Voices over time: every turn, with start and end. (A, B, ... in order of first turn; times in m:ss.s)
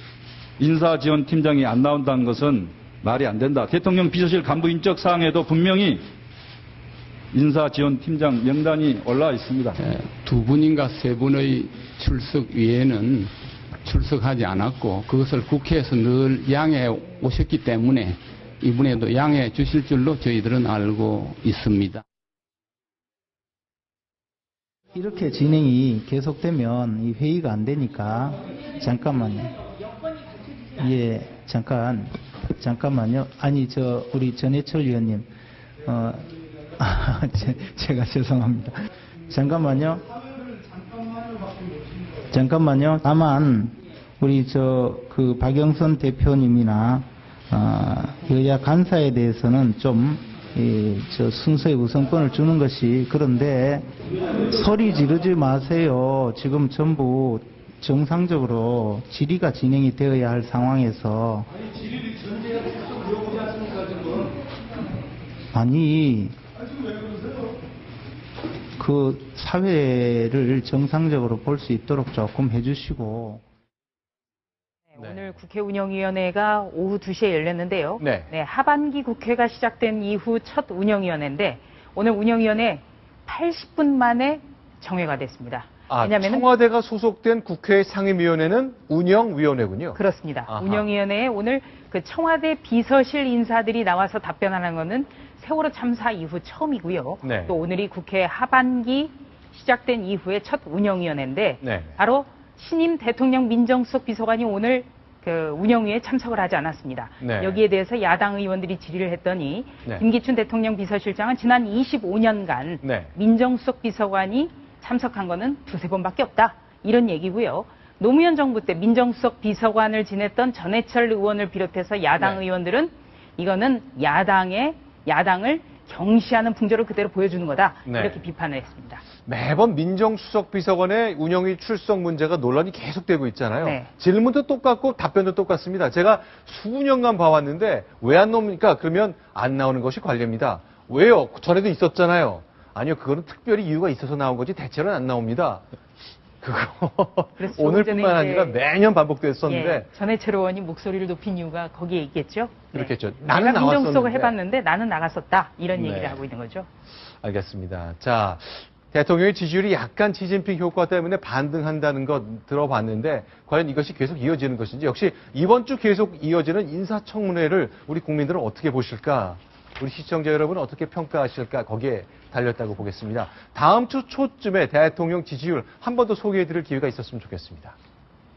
0:00.6-0:06.1 A
0:07.3-0:09.8 A
0:09.8-0:13.3 B
0:13.8-0:22.0 B
0:24.9-0:29.6 C
0:30.8-0:35.3 C
0:35.8-0:38.8 C
0:39.3-0:40.1 C
0:42.3-0:53.9 C
0:54.4-1:01.5 C
1:05.5-1:06.4 C
1:08.8-1:13.4 C
1:14.9-1:26.4 D
1:18.0-1:18.3 E
1:25.9-1:30.8 E
1:30.0-2:09.0 D
1:37.2-1:37.5 E
1:41.6-1:42.0 E
1:47.2-1:47.6 E
1:52.8-1:53.1 E
2:07.8-2:08.2 E
2:09.2-2:25.6 E
2:13.6-2:13.9 D
2:26.4-2:29.9 E
2:27.4-2:28.6 D
2:29.4-2:36.7 D
2:32.7-2:34.3 E
2:35.7-2:36.2 E
2:37.2-2:57.8 E